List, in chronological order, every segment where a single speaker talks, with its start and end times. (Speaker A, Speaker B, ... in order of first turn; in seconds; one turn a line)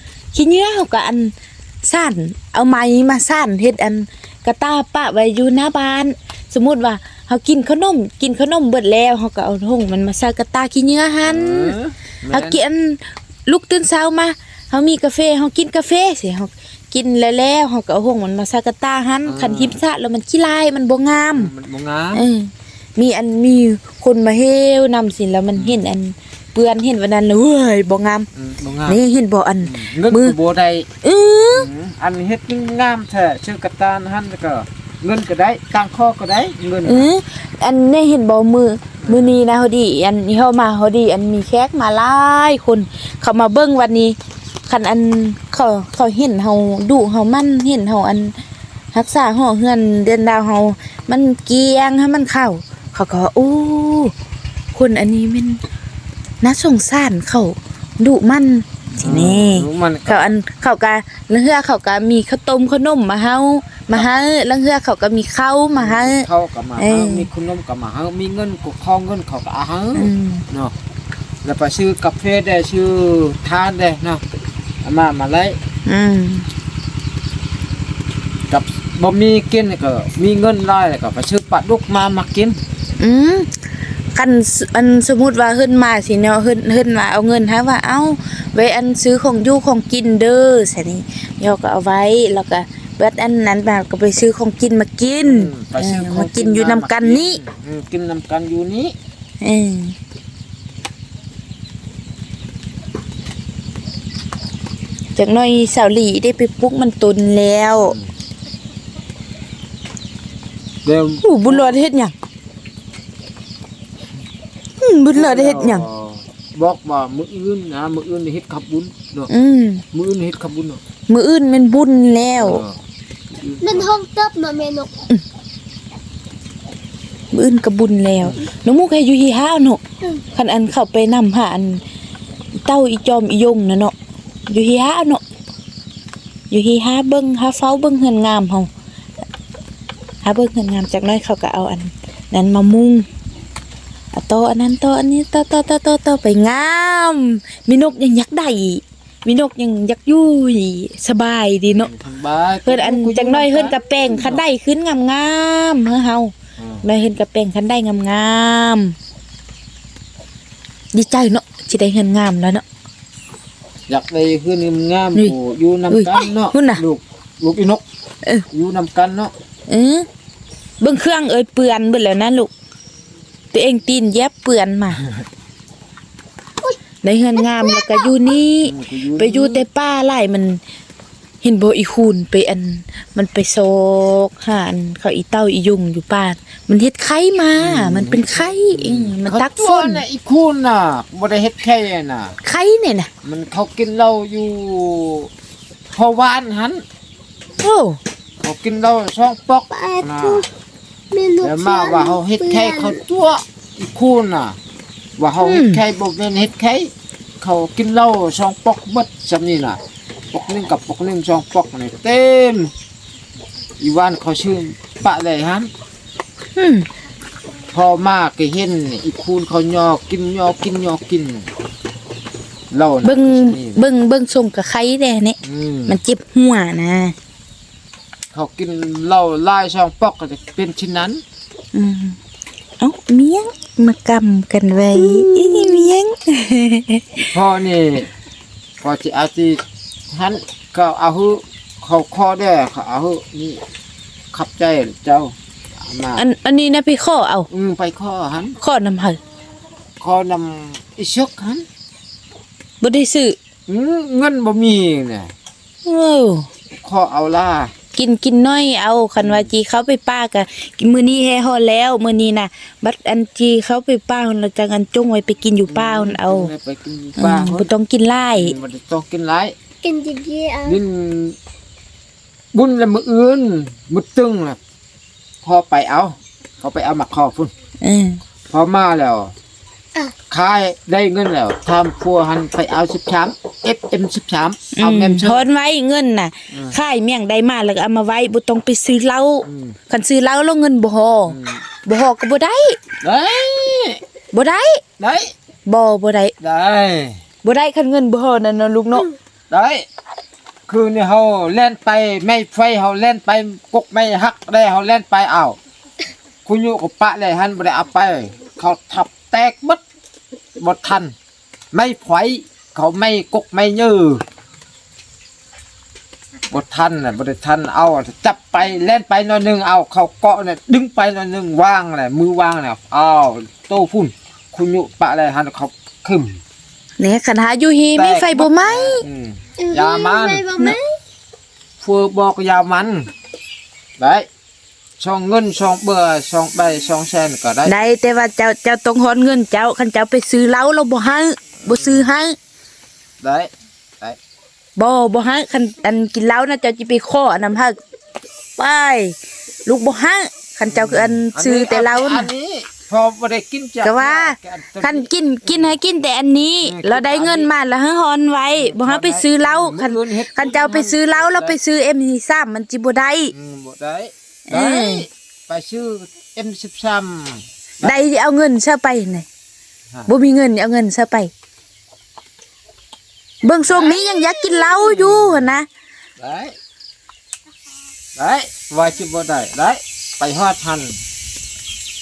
Speaker A: 0.3-11.8
Speaker B: 11.2-12.6
Speaker A: 12.3-21.5
Speaker B: 19.2-19.8
Speaker B: 21.4-22.2
Speaker A: 22.1-28.3
Speaker B: 25.6-25.8
Speaker B: 28.4-29.0
Speaker A: 28.9-30.4
Speaker B: 29.6-30.9
Speaker A: 31.0-31.7
Speaker B: 31.5-37.1
Speaker A: 36.8-44.2
Speaker B: 39.0-39.4
Speaker A: 44.7-48.4
Speaker A: 48.9-54.1
Speaker A: 54.8-55.6
Speaker A: 56.4-66.2
Speaker B: 59.0-60.3
Speaker B: 65.8-70.7
Speaker A: 66.8-67.3
Speaker A: 70.0-70.5
Speaker B: 71.4-74.2
Speaker B: 74.8-75.6
Speaker A: 75.9-76.5
Speaker B: 78.5-82.6
Speaker A: 83.0-83.5
Speaker A: 84.2-97.4
Speaker B: 95.2-99.0
Speaker A: 99.4-100.0
Speaker A: 105.2-108.0
Speaker B: 107.8-108.1
Speaker B: 110.8-111.8
Speaker A: 111.2-112.1
Speaker A: 114.8-115.8
Speaker B: 115.1-119.3
Speaker A: 119.3-119.8
Speaker B: 119.9-120.8
Speaker A: 121.1-122.6
Speaker B: 122.4-122.8
Speaker B: 123.3-123.9
Speaker C: 123.6-124.9
Speaker A: 127.3-129.8
Speaker A: 130.3-131.8
Speaker A: 132.7-133.9
Speaker A: 134.5-135.2
Speaker A: 136.5-138.7
Speaker A: 140.2-143.1
Speaker A: 144.1-151.9
Speaker B: 151.7-154.4
Speaker A: 152.7-158.9
Speaker B: 156.6-156.8
Speaker A: 160.9-162.6
Speaker B: 163.9-167.8
Speaker A: 165.9-166.8
Speaker B: 168.5-169.3
Speaker A: 169.7-170.1
Speaker A: 170.8-172.5
Speaker A: 173.5-175.0
Speaker A: 177.0-180.6
Speaker C: 177.4-178.3
Speaker B: 178.7-179.7
Speaker A: 181.4-190.1
Speaker B: 187.6-192.3
Speaker A: 192.4-193.1
Speaker B: 193.2-195.3
Speaker B: 195.9-196.8
Speaker A: 197.6-198.0
Speaker B: 198.4-200.4
Speaker C: 199.7-200.5
Speaker C: 201.1-203.0
Speaker B: 201.4-204.6
Speaker B: 205.2-209.8
Speaker A: 205.4-205.8
Speaker B: 210.3-212.7
Speaker B: 213.8-215.7
Speaker A: 216.6-216.9
Speaker B: 217.7-221.5
Speaker B: 222.7-223.8
Speaker A: 223.0-227.2
Speaker B: 225.4-226.0
Speaker B: 228.3-231.2
Speaker A: 231.7-232.2
Speaker A: 232.8-237.3
Speaker C: 234.9-235.9
Speaker B: 237.3-238.1
Speaker B: 238.8-243.6
Speaker B: 244.3-246.2
Speaker A: 246.2-247.5
Speaker B: 247.5-248.6
Speaker A: 248.6-249.2
Speaker B: 250.0-251.7
Speaker A: 252.8-253.4
Speaker B: 253.7-255.3
Speaker A: 255.8-256.5
Speaker B: 256.8-257.7
Speaker A: 257.9-266.5
Speaker B: 259.2-259.5
Speaker B: 265.7-267.7
Speaker A: 267.2-268.5
Speaker B: 268.3-269.6
Speaker C: 269.8-270.8
Speaker B: 270.6-271.4
Speaker B: 272.5-274.6
Speaker B: 275.4-277.5
Speaker A: 277.8-278.2
Speaker B: 278.5-279.3
Speaker B: 280.3-285.4
Speaker A: 284.7-292.8
Speaker B: 286.5-286.8
Speaker B: 289.4-289.8
Speaker B: 291.3-291.6
Speaker B: 293.0-294.0
Speaker A: 294.3-294.8
Speaker B: 295.0-295.3
Speaker A: 295.7-296.3
Speaker B: 296.4-297.2
Speaker A: 297.4-299.1
Speaker B: 299.5-299.9
Speaker B: 300.7-305.6
Speaker B: 306.5-309.8
Speaker B: 310.6-311.1
Speaker B: 311.7-314.2
Speaker B: 316.5-326.4
Speaker A: 327.0-329.1
Speaker B: 328.0-330.5
Speaker C: 329.6-330.9
Speaker B: 331.8-333.1
Speaker B: 334.0-334.3
Speaker B: 335.0-337.7
Speaker A: 337.6-342.4
Speaker B: 341.6-342.1
Speaker B: 343.2-344.2
Speaker A: 344.8-347.8
Speaker A: 348.6-352.3
Speaker B: 350.7-355.8
Speaker A: 353.8-363.3
Speaker B: 356.6-357.5
Speaker B: 358.6-361.6
Speaker B: 363.3-368.0
Speaker A: 364.5-365.1
Speaker A: 367.8-369.2
Speaker A: 370.1-371.3
Speaker A: 373.4-375.7
Speaker B: 373.6-375.6
Speaker B: 376.2-376.6
Speaker B: 378.2-381.0